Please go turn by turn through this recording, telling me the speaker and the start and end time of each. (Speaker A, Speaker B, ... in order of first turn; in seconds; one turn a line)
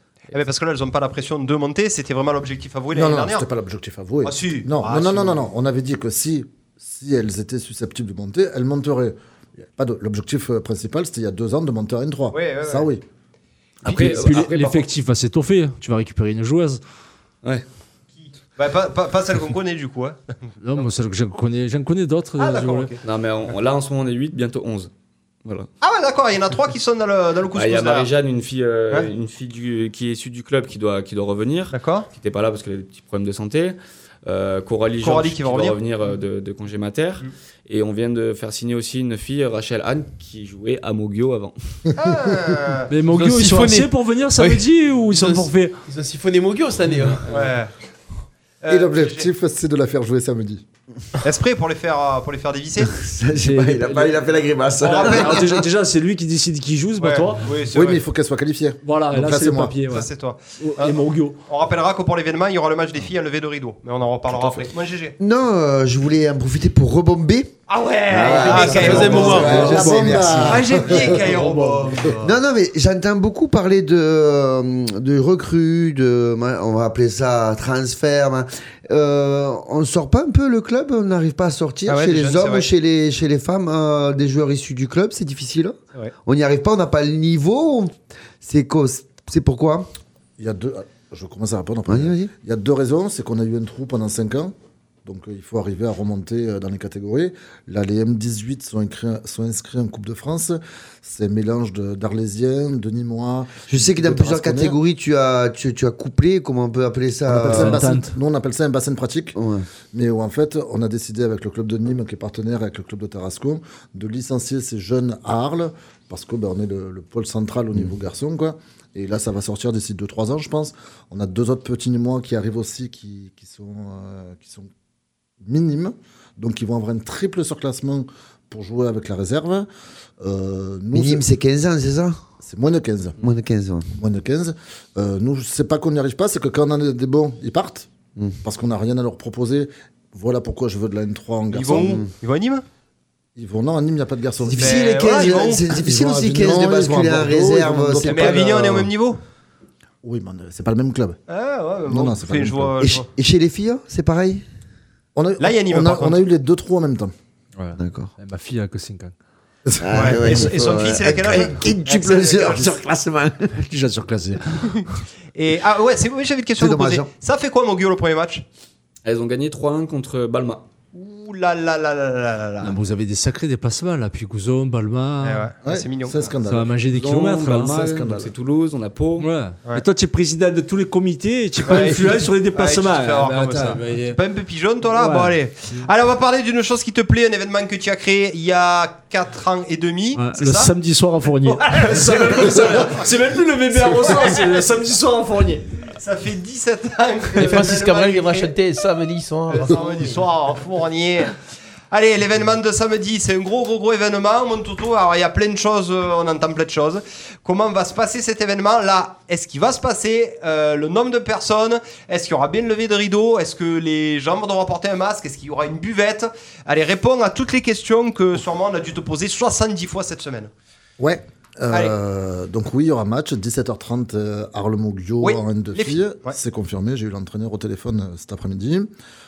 Speaker A: 0.3-3.5
Speaker B: 2.9-13.0
Speaker A: 4.2-5.4
Speaker A: 12.3-12.9
Speaker C: 13.8-14.8
Speaker D: 13.8-16.8
Speaker A: 13.9-14.4
Speaker A: 18.2-20.2
Speaker D: 20.6-22.9
Speaker A: 22.4-23.5
Speaker C: 23.0-24.9
Speaker A: 25.8-28.1
Speaker C: 27.5-41.8
Speaker A: 31.7-32.1
Speaker A: 35.0-35.8
Speaker A: 42.0-42.9
Speaker D: 42.9-45.7
Speaker E: 43.1-47.5
Speaker A: 47.3-47.7
Speaker A: 48.6-49.3
Speaker B: 48.7-50.6
Speaker A: 51.2-52.9
Speaker F: 52.9-55.6
Speaker D: 53.4-54.2
Speaker D: 54.8-57.5
Speaker A: 54.8-55.4
Speaker A: 57.0-58.0
Speaker B: 57.7-59.8
Speaker D: 58.8-60.1
Speaker A: 59.9-65.2
Speaker D: 60.6-61.4
Speaker F: 65.2-67.5
Speaker A: 67.7-69.7
Speaker F: 68.1-71.1
Speaker E: 68.3-69.9
Speaker D: 68.8-70.6
Speaker B: 68.9-71.2
Speaker A: 70.4-72.3
Speaker D: 71.3-72.0
Speaker F: 72.2-89.9
Speaker A: 81.9-82.7
Speaker B: 90.4-94.5
Speaker F: 91.9-92.3
Speaker B: 95.0-104.8
Speaker F: 103.7-107.8
Speaker B: 107.3-109.3
Speaker D: 107.5-108.2
Speaker F: 109.3-109.7
Speaker B: 109.9-124.7
Speaker B: 125.4-129.7
Speaker B: 130.2-131.2
Speaker F: 130.9-132.2
Speaker B: 132.4-133.2
Speaker F: 133.2-133.9
Speaker B: 133.9-137.9
Speaker B: 138.4-142.0
Speaker A: 141.5-142.6
Speaker F: 141.7-142.1
Speaker B: 143.3-144.9
Speaker F: 144.4-148.6
Speaker A: 144.6-145.6
Speaker B: 145.7-148.9
Speaker A: 148.1-149.2
Speaker B: 150.0-151.2
Speaker A: 151.3-153.1
Speaker B: 151.9-152.8
Speaker F: 152.8-154.4
Speaker B: 155.2-157.1
Speaker A: 155.4-156.2
Speaker D: 157.6-159.1
Speaker F: 157.8-158.1
Speaker B: 159.7-160.4
Speaker F: 159.8-163.5
Speaker A: 159.9-162.8
Speaker D: 163.5-164.9
Speaker A: 165.3-168.4
Speaker F: 166.6-167.1
Speaker C: 169.0-170.7
Speaker A: 170.9-172.8
Speaker D: 172.6-175.5
Speaker A: 175.2-176.2
Speaker B: 175.6-176.9
Speaker D: 176.5-177.8
Speaker C: 176.9-179.3
Speaker B: 177.6-178.3
Speaker D: 179.2-184.2
Speaker A: 181.6-190.7
Speaker D: 184.9-185.8
Speaker D: 190.2-195.6
Speaker A: 191.4-192.9
Speaker A: 193.8-194.6
Speaker A: 195.9-198.5
Speaker E: 197.3-200.2
Speaker A: 199.5-201.3
Speaker A: 201.9-220.5
Speaker B: 221.0-228.9
Speaker A: 225.2-226.3